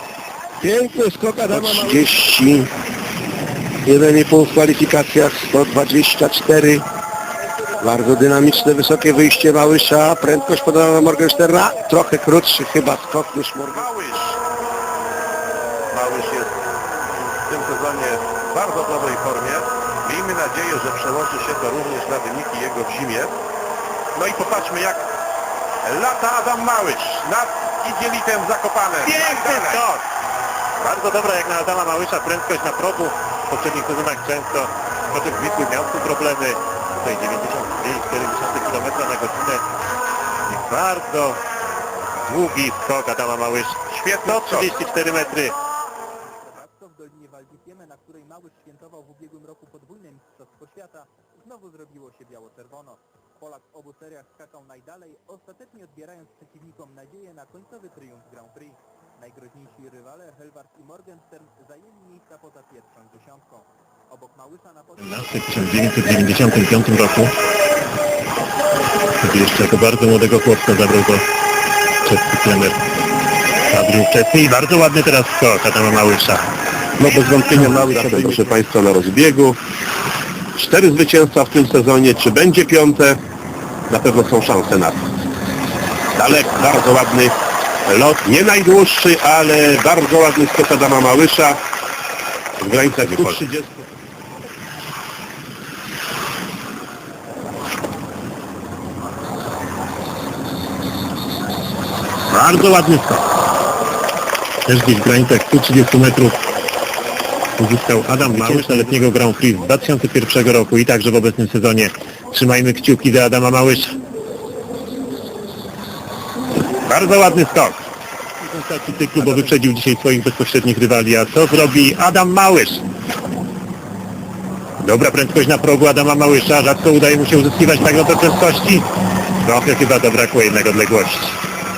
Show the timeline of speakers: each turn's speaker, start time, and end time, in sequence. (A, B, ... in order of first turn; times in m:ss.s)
0:00.6-0:02.7 A
0:03.8-0:06.8 A
0:07.8-0:13.9 A
0:13.7-0:14.4 B
0:15.9-0:16.6 B
0:17.3-0:23.4 B
0:24.1-0:25.1 B
0:25.8-0:29.9 B
0:29.0-0:30.0 C
0:30.8-0:39.6 C
0:40.4-0:41.4 C
0:42.3-0:45.6 C
0:43.9-0:44.7 B
0:46.2-1:05.4 D
1:05.0-1:07.3 C
1:09.2-1:11.2 C
1:12.0-1:12.8 C
1:13.7-1:16.5 C
1:17.0-1:19.6 B
1:17.3-1:18.5 C
1:20.6-1:23.2 B
1:23.9-1:25.0 B
1:26.2-1:31.6 B
1:32.6-1:33.8 B
1:32.9-1:33.4 C
1:42.3-1:43.3 C
1:44.7-1:46.4 C
1:47.6-1:54.0 C
1:56.8-1:57.8 C
1:58.4-2:02.8 C
2:04.8-2:11.4 C